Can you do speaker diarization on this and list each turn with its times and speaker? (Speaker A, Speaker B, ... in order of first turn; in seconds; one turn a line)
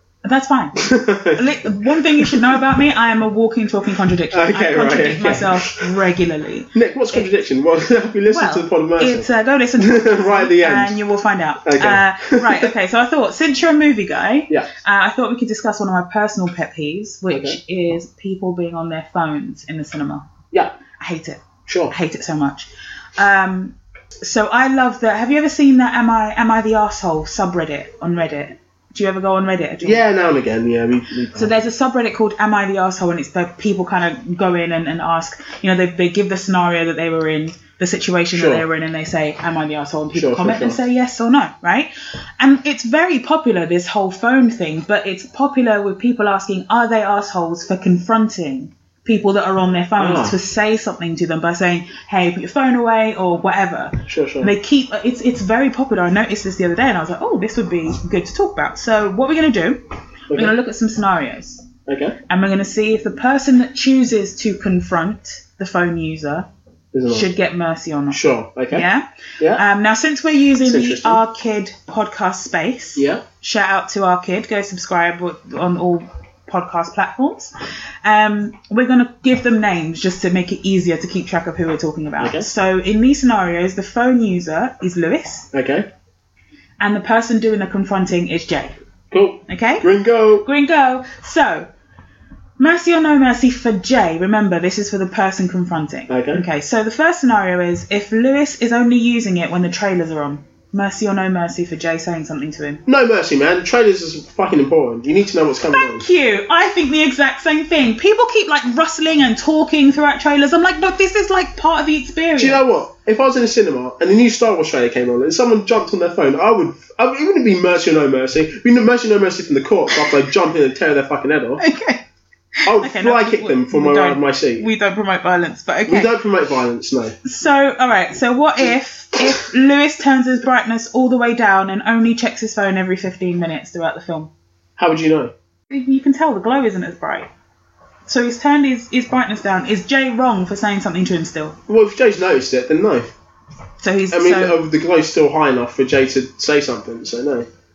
Speaker A: 0.2-7.3
Speaker B: 0.8-2.6
Speaker B: 4.3-5.9
Speaker B: 6.7-11.0
Speaker A: 8.3-20.3
Speaker B: 11.6-12.7
Speaker B: 17.3-17.6
Speaker A: 21.0-30.0
Speaker B: 21.7-21.9
Speaker B: 29.8-31.6
Speaker A: 31.3-59.8
Speaker B: 38.3-38.6
Speaker B: 40.1-40.8
Speaker B: 50.0-50.4
Speaker B: 54.1-54.5
Speaker A: 60.3-61.6
Speaker B: 61.9-62.2
Speaker A: 62.3-66.5
Speaker B: 66.9-67.3
Speaker A: 67.1-77.5
Speaker B: 68.1-68.8
Speaker B: 70.6-71.2
Speaker B: 73.0-73.2
Speaker A: 78.0-85.5
Speaker B: 82.2-82.5
Speaker B: 85.5-85.9
Speaker A: 86.8-88.8
Speaker B: 89.1-90.5
Speaker A: 89.5-89.8
Speaker A: 90.4-91.7
Speaker A: 92.6-102.8
Speaker B: 96.1-96.4
Speaker B: 102.8-106.0
Speaker A: 105.7-112.6
Speaker B: 112.4-121.6
Speaker A: 121.6-122.0
Speaker A: 122.6-126.1
Speaker B: 122.7-124.7
Speaker B: 125.9-127.2
Speaker A: 127.2-134.3
Speaker B: 134.8-135.3
Speaker A: 135.7-137.3
Speaker A: 138.1-141.6
Speaker B: 141.7-143.1
Speaker A: 143.8-144.6
Speaker B: 144.1-147.4